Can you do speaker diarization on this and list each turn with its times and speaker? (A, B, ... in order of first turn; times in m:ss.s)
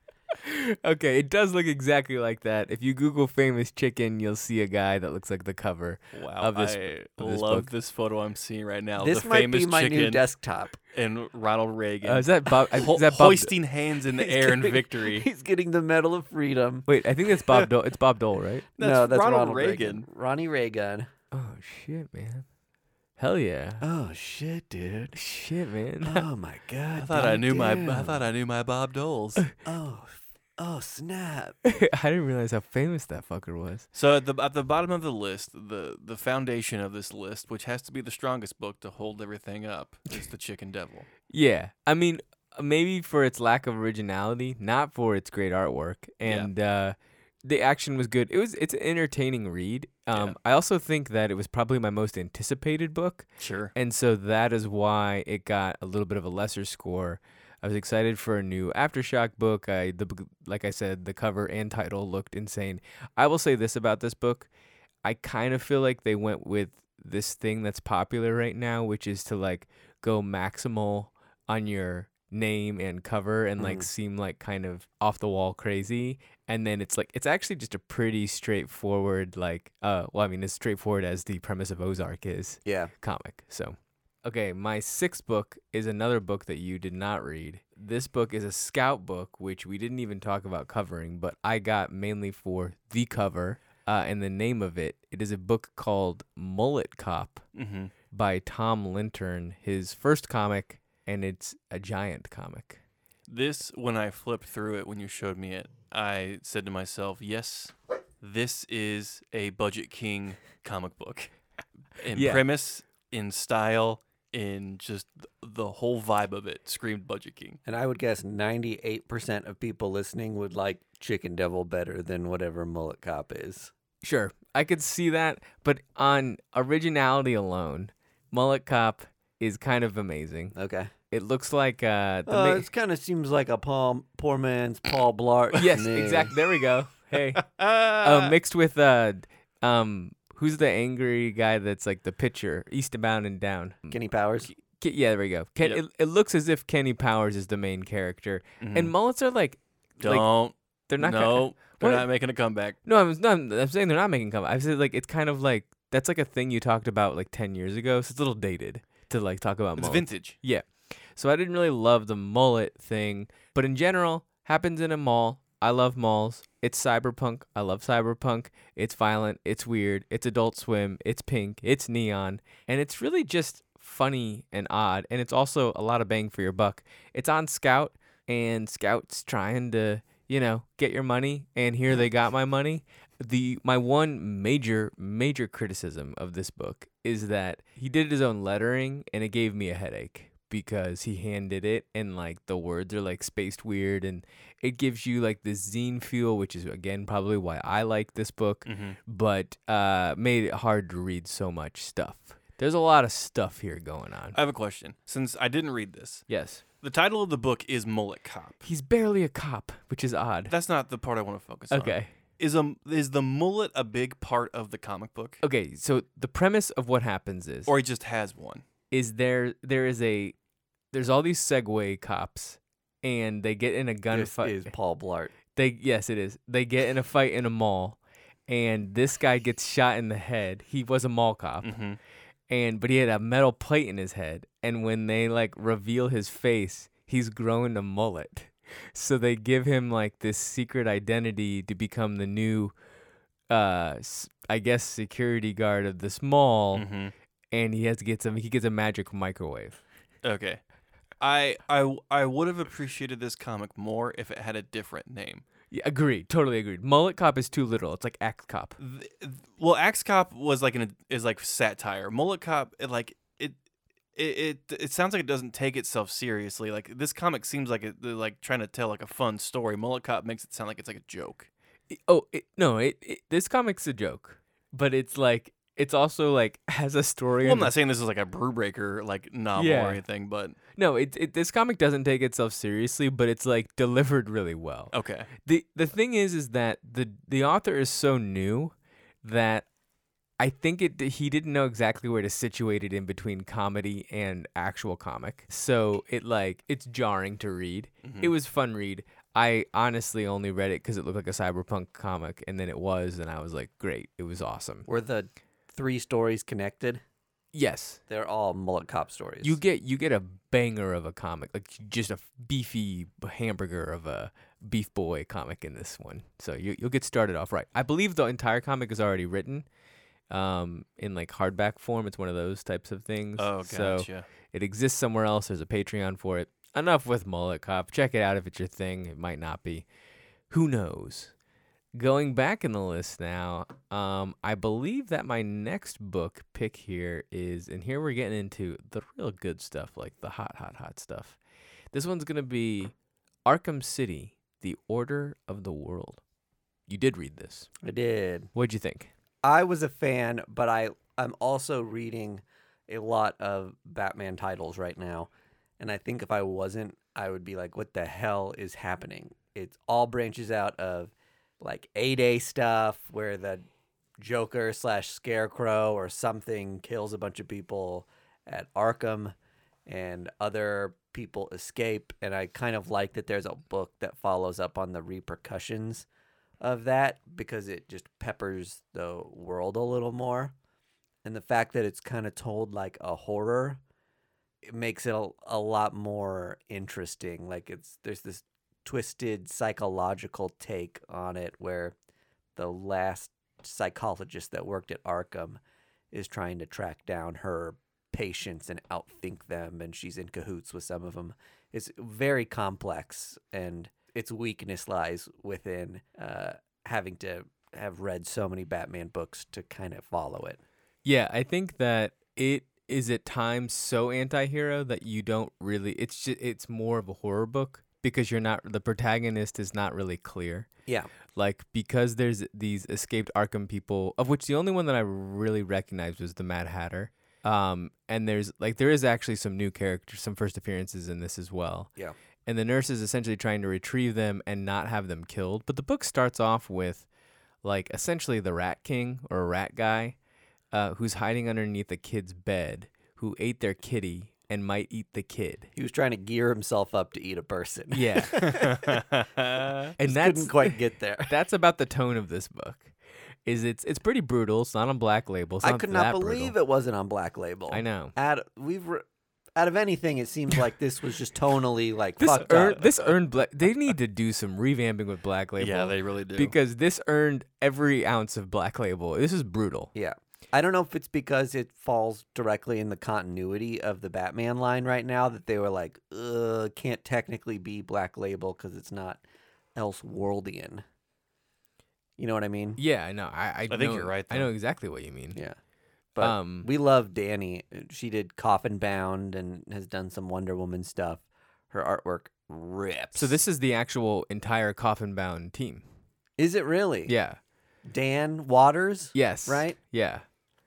0:00.3-0:07.7 A
0:06.1-0:10.2 B
0:09.0-0:10.8 C
0:10.9-0:15.3 B
0:12.0-0:13.5 A
0:14.1-0:16.9 C
0:16.9-0:18.7 A
0:18.8-0:20.1 B
0:18.8-0:21.1 C
0:21.3-0:22.4 A
0:23.2-0:23.8 A
0:23.8-0:25.2 C
0:25.2-0:26.3 A
0:26.0-0:28.2 C
0:27.0-0:29.4 B
0:29.6-0:31.6 C
0:31.6-0:33.9 A
0:33.9-0:41.1 B
0:41.3-1:04.5 A
0:46.2-0:46.5 B
0:53.4-0:53.7 B
1:05.0-1:37.5 A
1:13.6-1:13.9 C
1:22.6-1:22.9 C
1:37.6-1:37.9 B
1:38.1-1:42.8 A
1:43.3-1:51.3 B
1:52.0-1:57.6 B
1:52.1-1:52.4 A
1:57.6-2:03.7 C
2:04.0-2:10.6 A
2:10.5-2:10.9 C
2:11.1-2:12.7 A
2:12.3-2:16.3 C
2:15.5-2:17.5 A
2:17.4-2:18.4 B
2:18.0-2:24.0 A
2:23.9-2:24.5 C
2:24.8-2:30.3 A
2:28.6-2:28.9 B
2:30.0-2:32.8 B
2:30.9-2:32.1 A
2:32.8-3:24.4 A
2:39.8-2:40.4 B
3:18.7-3:19.0 B
3:24.3-3:26.2 B
3:26.3-3:26.6 A
3:26.8-3:28.6 B
3:28.6-3:30.5 A
3:30.5-3:35.4 B
3:31.7-3:32.1 A
3:35.4-3:37.7 A
3:37.7-3:38.6 B
3:38.9-3:40.4 A
3:40.9-3:44.7 A
3:44.1-3:45.3 C
3:45.5-3:51.8 A
3:51.6-3:52.0 B
3:52.5-4:02.7 A
4:03.5-4:06.8 A
4:06.7-4:07.1 B
4:07.5-4:09.8 A
4:10.2-4:10.6 B
4:11.2-4:15.4 B
4:15.7-4:18.8 A
4:18.8-4:23.6 B
4:24.2-4:31.5 B
4:31.9-4:37.7 A
4:37.4-4:40.6 B
4:39.6-4:40.0 A
4:40.8-4:49.7 A
4:44.9-4:45.3 B
4:50.4-5:04.9 A
4:58.0-4:58.3 B
5:04.9-5:07.0 C
5:07.5-5:08.0 A
5:08.1-5:09.6 C
5:09.4-5:19.7 A
5:20.3-5:29.9 A
5:23.4-5:24.3 B
5:30.5-5:31.3 A
5:32.0-5:41.4 A
5:41.9-5:42.9 A
5:43.5-5:46.2 A
5:46.9-5:47.7 A
5:47.8-5:48.5 C
5:48.5-5:49.1 A
5:49.4-6:03.6 C
6:04.2-6:09.4 C
6:09.9-6:16.1 C
6:16.6-6:20.5 C
6:21.2-6:23.8 C
6:24.6-6:32.0 C
6:32.6-6:35.6 C
6:36.1-6:50.6 C
6:51.0-7:00.7 A
7:01.4-7:11.9 A
7:12.5-7:17.1 A
7:17.6-7:20.2 A
7:20.7-7:25.7 A
7:25.8-7:29.0 C
7:27.9-7:28.6 A
7:28.4-7:29.9 B
7:30.0-7:32.9 A
7:30.0-7:31.3 C
7:33.4-7:36.5 A
7:35.6-7:39.0 C
7:37.7-7:38.1 A
7:39.6-7:43.1 C
7:42.2-7:49.9 A
7:45.6-7:46.6 B
7:49.9-7:59.2 C
7:59.8-8:00.8 C
8:02.2-8:02.8 C
8:02.8-8:05.4 A
8:03.7-8:04.5 B
8:06.2-8:13.4 C
8:06.2-8:06.7 A
8:13.2-8:15.8 A
8:16.4-8:17.1 C
8:17.1-8:17.4 A
8:17.9-8:19.8 C
8:19.1-8:20.2 A